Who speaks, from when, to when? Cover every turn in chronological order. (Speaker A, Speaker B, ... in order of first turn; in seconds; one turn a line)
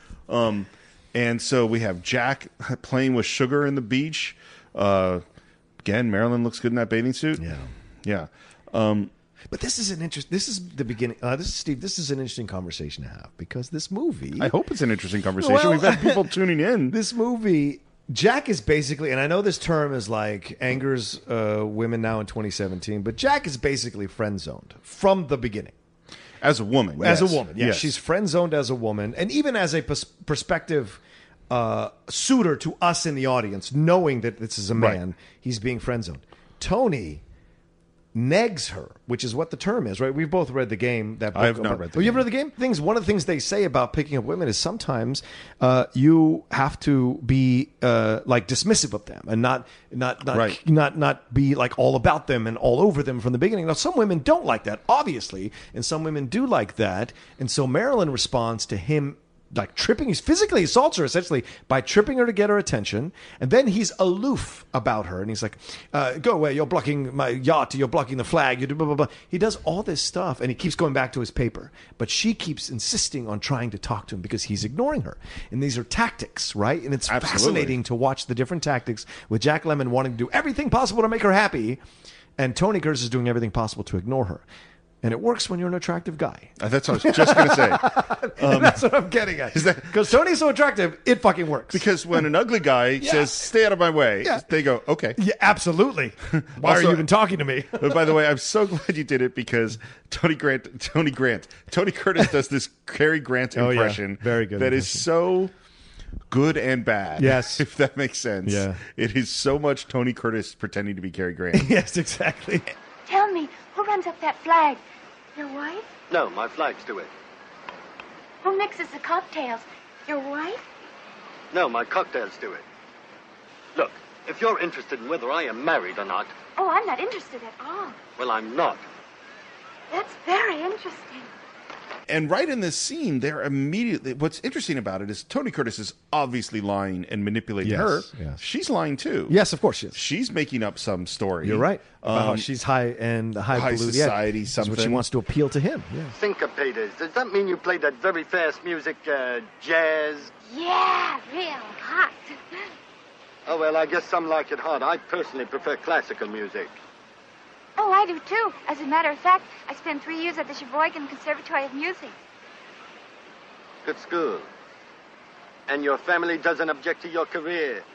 Speaker A: 0.3-5.2
Speaker A: 5.8-9.1
Speaker B: 7.4-7.7
Speaker B: 9.5-14.5
Speaker A: 14.4-16.9
Speaker B: 15.4-16.3
Speaker B: 16.9-25.7
Speaker A: 26.4-27.9
Speaker B: 27.0-31.0
Speaker B: 31.5-37.2
Speaker A: 34.8-35.0
Speaker B: 38.1-81.8
Speaker A: 41.3-42.3
Speaker A: 50.3-50.6
Speaker A: 77.1-77.8
Speaker B: 82.4-84.4
Speaker B: 85.0-91.9
Speaker A: 86.6-88.9
Speaker A: 89.5-90.1
Speaker A: 91.7-95.2
Speaker B: 93.0-93.4
Speaker B: 95.2-98.1
Speaker A: 96.3-97.1
Speaker A: 97.8-105.5
Speaker B: 103.5-105.0
Speaker A: 106.3-111.7
Speaker B: 107.2-107.7
Speaker B: 108.5-108.8
Speaker B: 111.5-112.7
Speaker C: 113.1-114.8
Speaker C: 115.4-115.9
Speaker D: 116.1-117.1
Speaker C: 118.4-120.7
Speaker D: 121.5-122.7
Speaker D: 123.8-126.3
Speaker C: 126.6-128.0
Speaker D: 128.2-128.8
Speaker C: 129.9-131.3
Speaker A: 132.1-139.4
Speaker B: 137.6-138.4
Speaker B: 139.3-140.0
Speaker A: 139.9-142.5
Speaker B: 141.4-146.2
Speaker A: 143.5-145.0
Speaker D: 146.2-150.3
Speaker C: 150.5-152.7
Speaker D: 153.5-156.7
Speaker C: 157.8-162.1
Speaker D: 163.8-164.5
Speaker D: 165.7-167.8